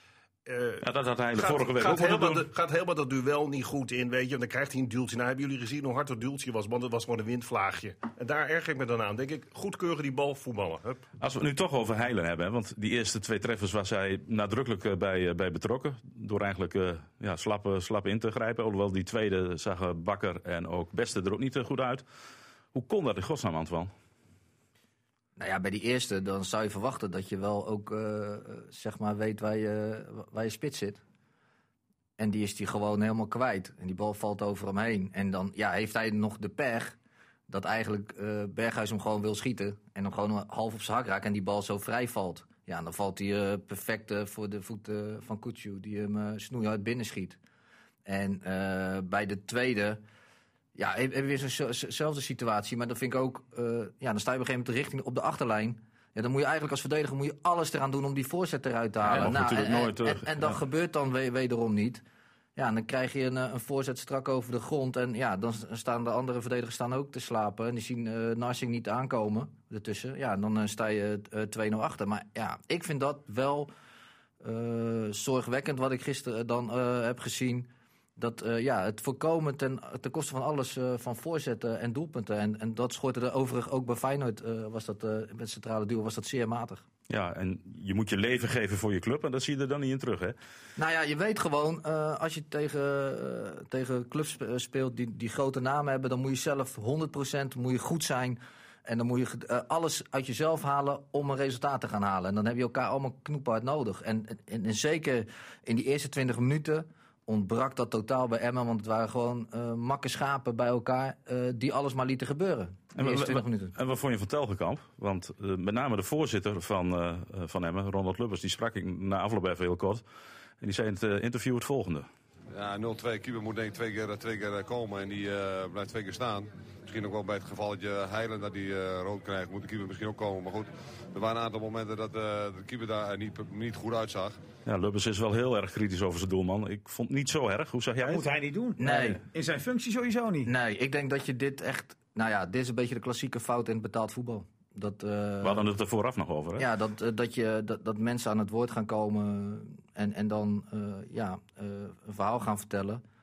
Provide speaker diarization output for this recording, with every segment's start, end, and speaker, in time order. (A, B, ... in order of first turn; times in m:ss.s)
0:00.5-0:11.1 A
0:00.8-0:02.5 B
0:11.2-0:22.0 B
0:22.7-0:23.9 B
0:25.4-0:31.0 C
0:32.2-0:37.0 C
0:37.5-0:47.4 C
0:48.1-0:50.0 C
0:50.8-1:02.0 C
0:59.0-1:00.6 B
1:02.6-1:13.7 C
1:14.4-1:26.8 C
1:27.1-1:30.4 B
1:30.8-1:53.7 C
1:53.0-2:00.0 B
2:00.6-2:02.1 B
2:02.5-2:14.4 D
2:14.7-2:18.3 B
2:18.0-2:20.5 E
2:18.8-2:19.2 C
2:18.8-2:19.1 B
2:20.4-2:25.7 C
2:25.4-2:26.7 B
2:26.6-2:33.0 C